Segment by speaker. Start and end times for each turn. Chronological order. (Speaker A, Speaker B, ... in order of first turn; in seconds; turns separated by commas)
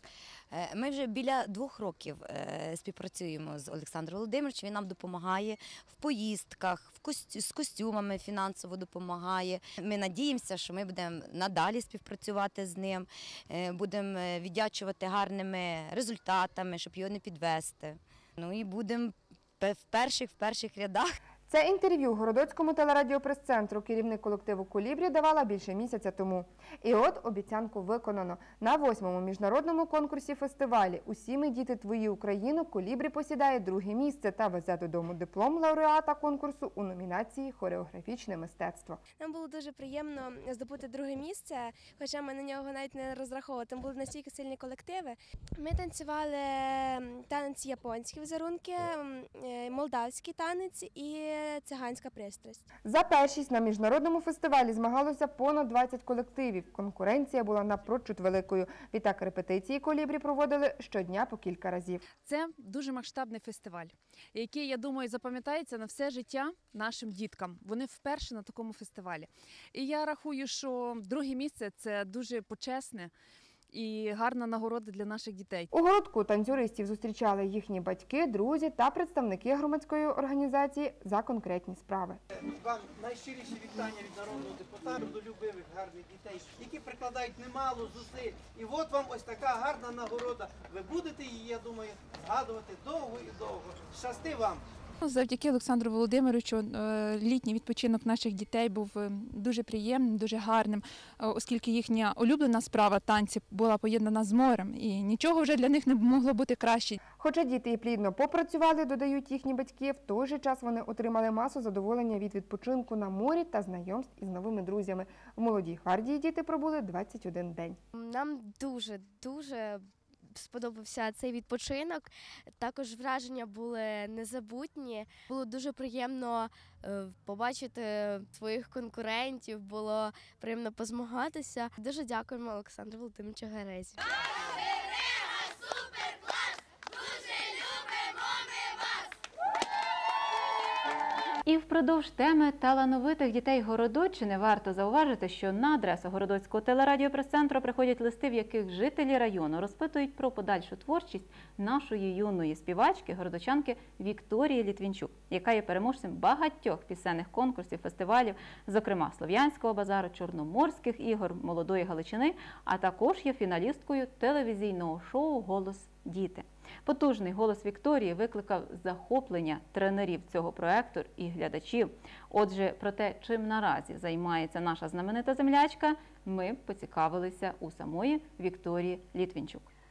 Speaker A: 0.5-21.2, Speaker B: 21.5-39.0, Speaker C: 39.2-52.6, Speaker B: 52.9-62.0, Speaker D: 62.2-73.1, Speaker D: 73.7-75.7, Speaker B: 75.7-82.2, Speaker E: 82.3-94.6, Speaker F: 95.0-107.0, Speaker B: 107.2-117.8, Speaker G: 117.9-134.0, Speaker H: 141.5-179.7